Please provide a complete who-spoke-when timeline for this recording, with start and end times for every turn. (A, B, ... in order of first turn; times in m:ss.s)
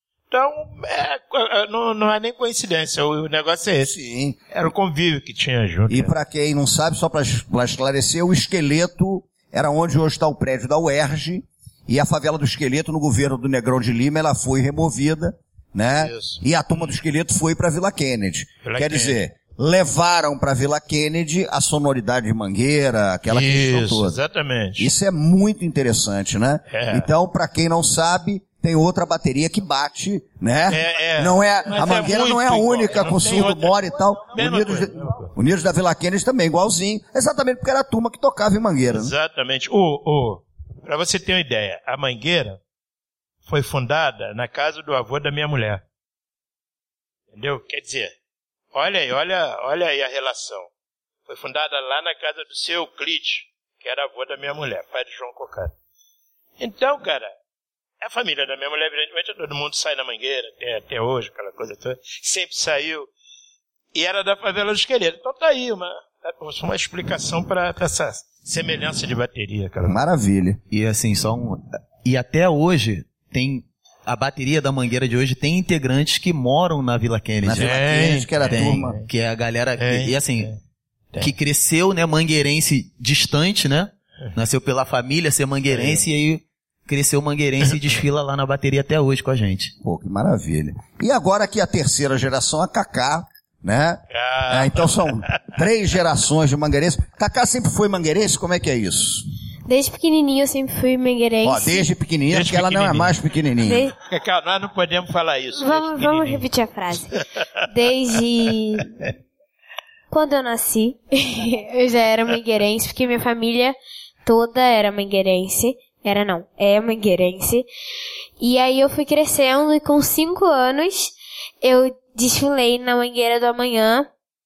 0:00.3-0:04.0 A
0:03.8-0:04.4 B
0:04.5-0:06.1 A
0:05.9-0:24.2 B
0:16.0-0:16.4 A
0:18.6-0:19.2 A
0:23.3-0:24.9 A
0:24.8-0:39.1 B
0:26.7-0:27.1 A
0:30.7-0:35.3 A
0:38.9-0:42.6 A
0:43.5-0:45.8 A
0:47.3-0:48.1 A
0:48.7-0:50.7 A
0:51.3-0:55.7 A
0:56.6-0:57.3 A
0:58.0-1:03.1 A
1:03.9-1:10.0 A
1:09.8-1:10.6 B
1:10.7-1:17.8 C
1:17.4-1:19.0 B
1:17.5-1:19.1 A
1:18.5-1:20.6 C
1:19.8-1:20.6 A
1:21.2-1:29.7 C
1:25.7-1:26.0 A
1:27.7-1:28.0 A
1:29.8-1:39.2 B
1:34.1-1:35.6 A
1:39.7-1:41.9 D
1:41.4-1:43.9 B
1:42.3-1:43.2 A
1:43.6-1:44.0 D
1:44.0-1:46.4 A
1:45.6-1:49.1 D
1:47.2-1:47.5 A
1:50.1-1:57.7 D
1:58.4-2:04.1 D